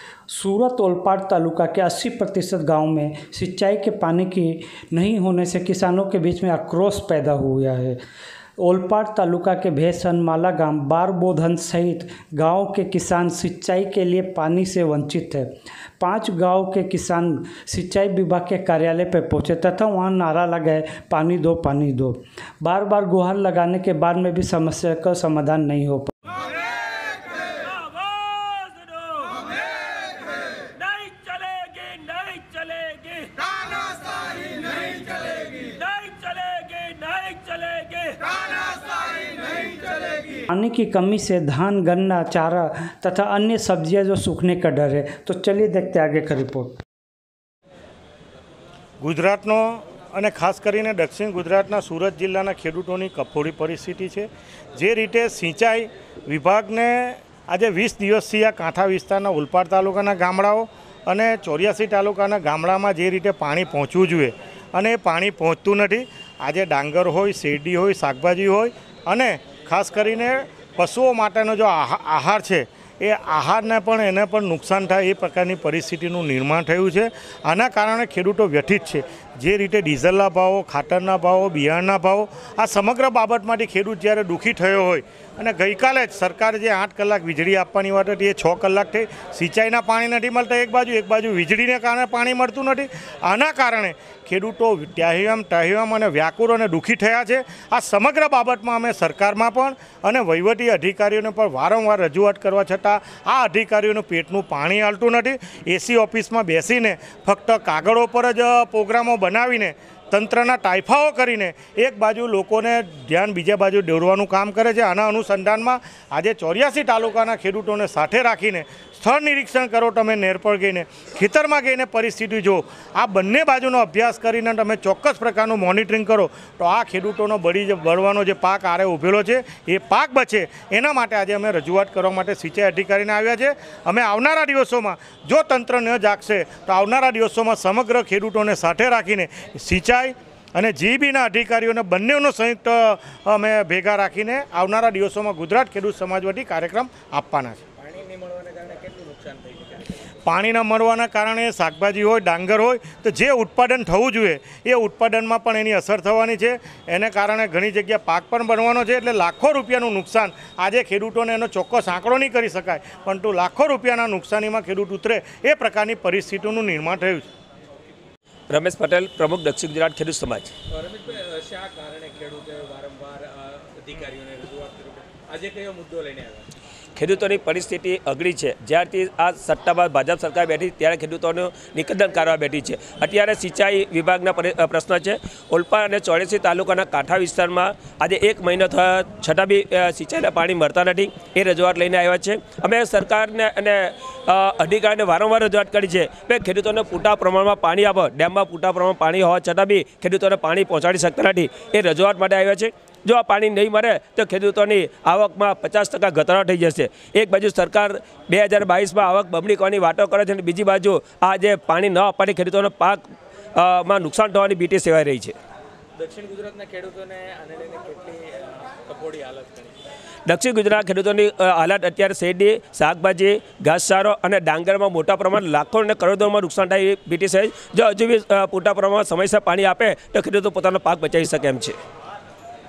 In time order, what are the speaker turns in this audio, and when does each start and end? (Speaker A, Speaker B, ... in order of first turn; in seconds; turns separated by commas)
Speaker A: 0.3-8.0, Speaker A: 8.6-15.5, Speaker A: 16.0-26.1, Speaker B: 26.5-40.4, Speaker A: 40.5-46.8, Speaker C: 49.0-147.6, Speaker D: 147.8-150.0, Speaker C: 150.2-167.3, Speaker B: 168.5-170.5, Speaker D: 170.7-176.5, Speaker B: 177.0-213.0, Speaker B: 213.6-215.4, Speaker D: 216.0-219.8, Speaker B: 220.3-231.8